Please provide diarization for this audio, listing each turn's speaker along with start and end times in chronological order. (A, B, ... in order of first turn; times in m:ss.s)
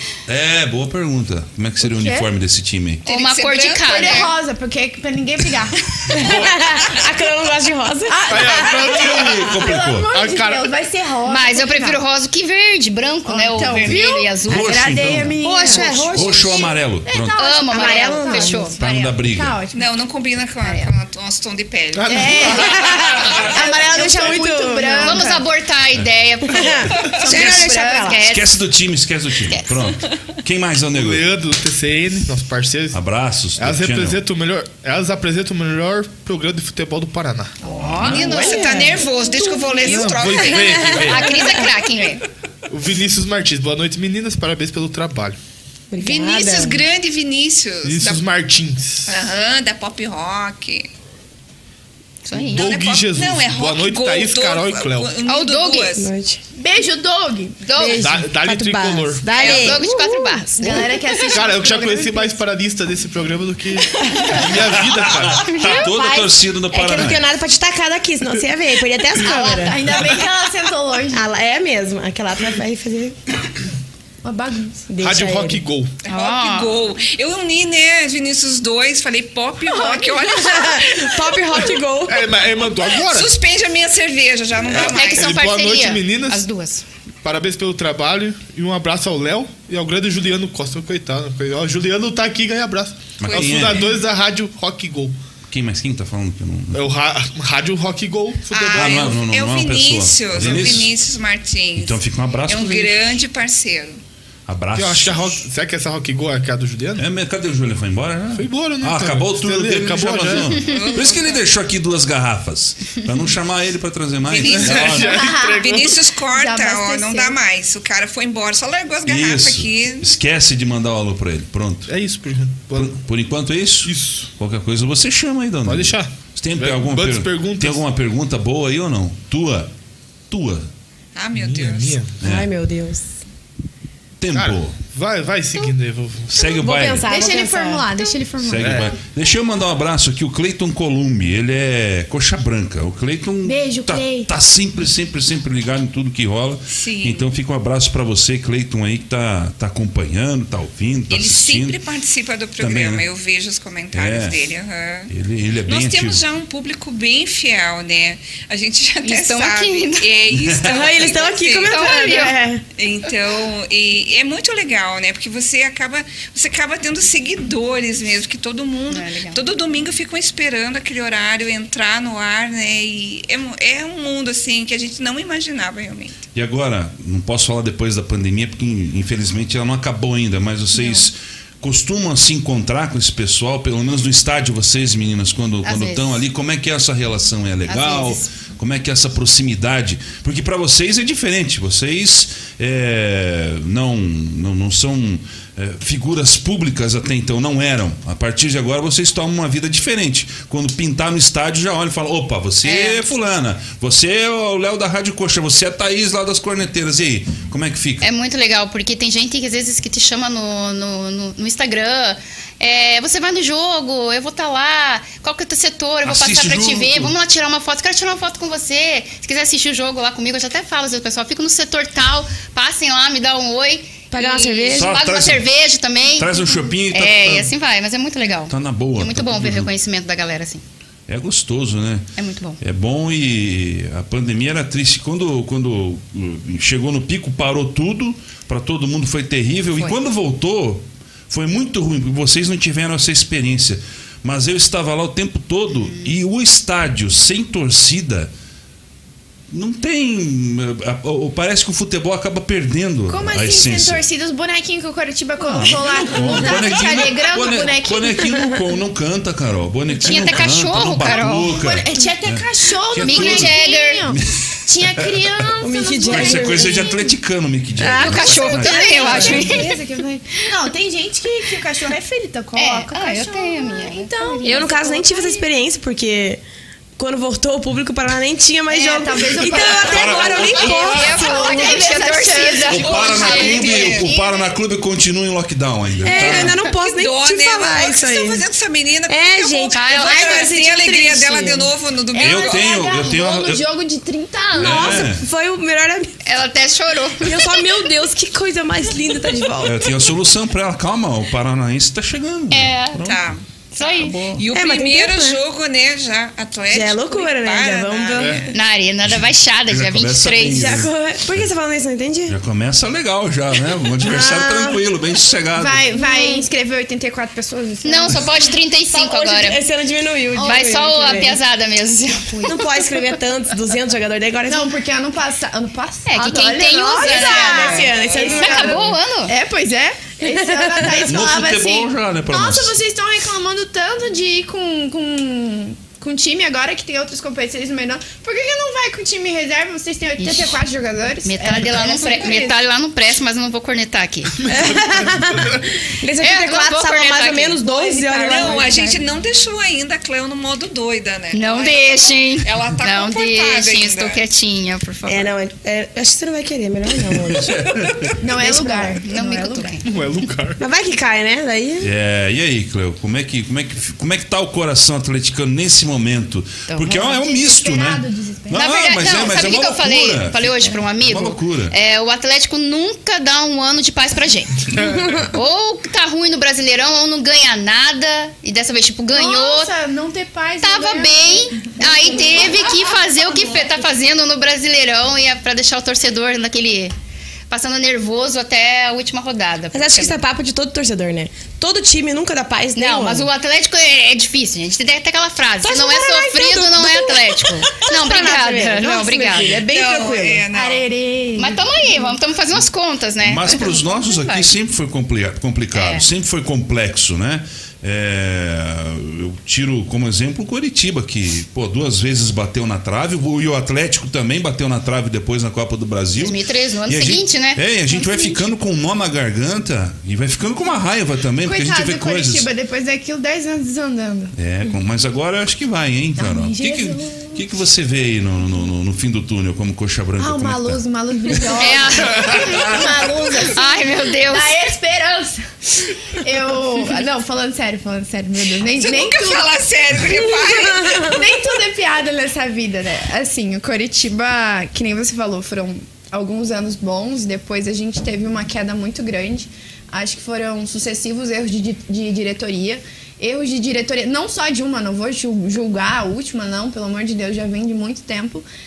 0:00.3-0:03.0 A
0:01.8-0:02.3 B
0:03.0-0:04.3 C
0:03.0-0:04.3 D
0:03.8-0:05.8 B
0:06.1-0:09.1 E
0:06.2-0:06.5 F
0:08.1-0:12.0 B
0:08.3-0:10.7 F
0:09.1-0:10.1 A
0:11.3-0:14.8 D
0:13.2-0:19.8 B
0:13.7-0:17.5 A
0:15.4-0:16.6 E
0:17.4-0:18.8 D
0:17.7-0:18.7 E
0:18.8-0:19.6 A
0:19.7-0:22.4 C
0:20.6-0:20.9 D
0:21.9-0:22.8 F
0:22.1-0:25.4 B
0:22.6-0:25.3 E
0:25.0-0:28.5 D
0:26.5-0:27.9 E
0:27.1-0:28.2 B
0:27.2-0:27.7 C
0:28.2-0:31.3 A
0:29.4-0:29.9 D
0:30.9-0:33.0 F
0:32.9-0:34.2 A
0:33.6-0:37.6 F
0:37.8-0:38.7 D
0:38.0-0:41.0 C
0:38.0-0:39.0 E
0:38.6-0:39.7 B
0:39.8-0:41.5 F
0:40.5-0:41.6 E
0:41.0-0:42.2 D
0:42.7-0:45.4 F
0:45.9-0:46.8 E
0:46.0-0:48.2 C
0:47.8-0:49.1 F
0:49.1-0:50.9 C
0:52.2-0:52.7 D
0:52.3-0:55.2 F
0:52.4-0:56.1 C
0:55.2-0:55.9 D
0:56.0-0:56.4 E
0:56.6-0:57.6 B
0:57.6-0:58.1 D
0:57.7-1:01.0 E
0:58.0-0:59.4 F
0:59.4-0:59.8 C
0:59.4-1:00.6 D
1:00.6-1:02.4 B
1:01.3-1:05.8 F
1:04.2-1:07.2 A
1:05.5-1:06.4 B
1:06.7-1:09.9 E
1:09.2-1:11.3 B
1:11.1-1:13.2 E
1:14.2-1:14.9 B
1:14.9-1:15.6 E
1:15.0-1:15.9 F
1:16.0-1:21.3 C
1:16.1-1:16.8 D
1:19.7-1:20.2 B
1:20.5-1:22.4 E
1:22.1-1:23.3 F
1:22.9-1:25.4 C
1:24.7-1:26.4 F
1:24.8-1:26.8 D
1:27.2-1:35.2 F
1:33.2-1:34.0 A
1:33.2-1:34.0 C
1:35.5-1:36.9 A
1:36.7-1:39.2 F
1:38.5-1:44.0 C
1:38.7-1:41.0 A
1:40.4-1:40.8 F
1:41.8-1:43.2 A
1:44.5-1:45.3 A
1:44.8-1:47.1 F
1:47.0-1:55.2 A
1:48.3-1:50.6 F
1:50.5-1:51.4 C
1:54.2-2:00.1 C
1:54.4-1:56.0 F
1:55.0-1:55.7 B
1:56.3-1:57.4 B
1:59.0-2:01.9 A
2:01.9-2:03.0 F
2:02.8-2:09.7 A
2:03.8-2:04.3 F
2:05.6-2:07.8 F
2:10.3-2:10.7 A
2:11.1-2:12.0 C
2:11.3-2:12.2 F
2:12.2-2:12.5 A
2:12.2-2:13.1 E
2:14.2-2:14.8 A
2:14.3-2:16.6 F
2:16.3-2:17.0 A
2:16.4-2:18.2 E
2:17.0-2:19.0 B
2:18.4-2:31.8 A
2:18.6-2:19.0 F
2:23.4-2:24.3 B
2:26.7-2:27.3 C
2:31.1-2:35.1 C
2:32.6-2:33.0 A
2:33.9-2:34.4 A
2:35.1-2:36.2 A
2:35.6-2:56.2 C
2:39.0-2:40.1 D
2:40.6-2:42.6 E
2:41.5-2:42.4 D
2:48.9-2:49.4 D
2:56.3-3:28.1 A
3:00.7-3:01.0 D
3:05.6-3:06.2 D
3:07.6-3:08.3 D
3:22.6-3:23.1 D
3:28.0-3:50.6 D
3:36.0-3:37.1 A
3:44.1-3:45.0 E
3:44.7-3:45.5 A
3:46.1-3:47.6 A
3:48.5-3:49.7 A
3:51.1-3:52.1 A
3:52.2-3:52.6 D
3:52.6-4:08.3 A
3:59.7-4:00.0 D
4:09.5-4:14.0 A
4:13.1-4:18.2 B
4:15.4-4:25.5 A
4:18.2-4:18.6 E
4:19.9-4:21.6 D
4:21.5-4:27.1 B
4:23.0-4:24.0 D
4:25.6-4:26.9 E
4:26.1-4:29.4 A
4:27.8-4:28.5 E
4:27.9-4:29.8 D
4:28.2-4:35.4 B
4:29.0-4:29.4 E
4:32.5-4:34.7 D
4:34.4-4:36.4 E
4:37.0-4:41.5 E
4:38.7-4:44.6 B
4:39.5-4:44.0 D
4:39.9-4:41.2 A
4:40.9-4:41.8 C
4:42.7-4:46.6 A
4:43.3-4:44.0 C
4:46.0-4:48.4 E
4:46.5-4:52.7 C
4:49.1-4:51.7 E
4:49.7-4:50.5 D
4:52.1-4:55.1 B
4:52.1-4:53.6 A
4:54.6-4:55.2 A
4:54.6-4:56.2 E
4:56.2-4:57.7 D
4:57.2-5:00.0 E
4:59.6-5:03.4 A
5:02.5-5:03.1 D
5:03.0-5:08.5 C
5:03.7-5:04.3 D
5:04.0-5:04.4 A
5:04.5-5:05.4 E
5:06.7-5:08.4 E
5:08.2-5:08.4 F
5:08.5-5:10.7 D
5:09.6-5:10.9 A
5:10.5-5:12.4 E
5:12.3-5:15.9 A
5:14.0-5:14.8 E
5:15.6-5:18.5 B
5:15.9-5:16.4 E
5:17.8-5:19.6 D
5:18.9-5:21.4 E
5:20.4-5:20.8 B
5:20.4-5:23.0 D
5:22.4-5:24.7 E
5:24.5-5:42.6 B
5:26.1-5:29.3 D
5:27.0-5:29.0 E
5:27.5-5:28.6 C
5:30.2-5:31.0 E
5:31.0-5:32.8 A
5:40.2-5:40.6 D
5:41.2-5:44.4 D
5:44.4-5:48.9 E
5:46.2-5:47.7 D
5:47.6-5:49.0 B
5:48.2-5:54.2 C
5:51.3-5:55.3 D
5:55.0-5:57.7 E
5:57.2-5:58.1 A
5:58.2-5:59.8 B
5:58.4-5:59.0 E
5:58.5-5:59.8 D
5:59.8-6:00.6 F
6:00.6-6:01.9 E
6:01.8-6:11.7 A
6:06.7-6:07.2 D
6:07.1-6:09.2 B
6:08.5-6:14.7 D
6:14.8-6:15.0 F
6:15.3-6:19.7 D
6:19.1-6:23.4 B
6:20.6-6:26.9 D
6:27.5-6:30.2 D
6:29.7-6:33.3 E
6:32.8-6:39.6 D
6:35.6-6:40.4 E
6:39.6-6:40.8 C
6:40.5-6:42.1 B
6:41.4-6:44.5 D
6:43.2-7:02.5 A
6:45.7-6:46.1 D
6:56.2-6:58.4 D
6:57.9-6:58.3 B
7:01.4-7:04.3 B
7:04.4-7:11.4 A
7:06.2-7:07.5 B
7:10.2-7:19.5 B
7:11.5-7:12.4 D
7:12.2-7:12.8 A
7:13.5-7:14.6 D
7:18.6-7:21.1 C
7:20.5-7:21.0 E
7:20.8-7:38.4 B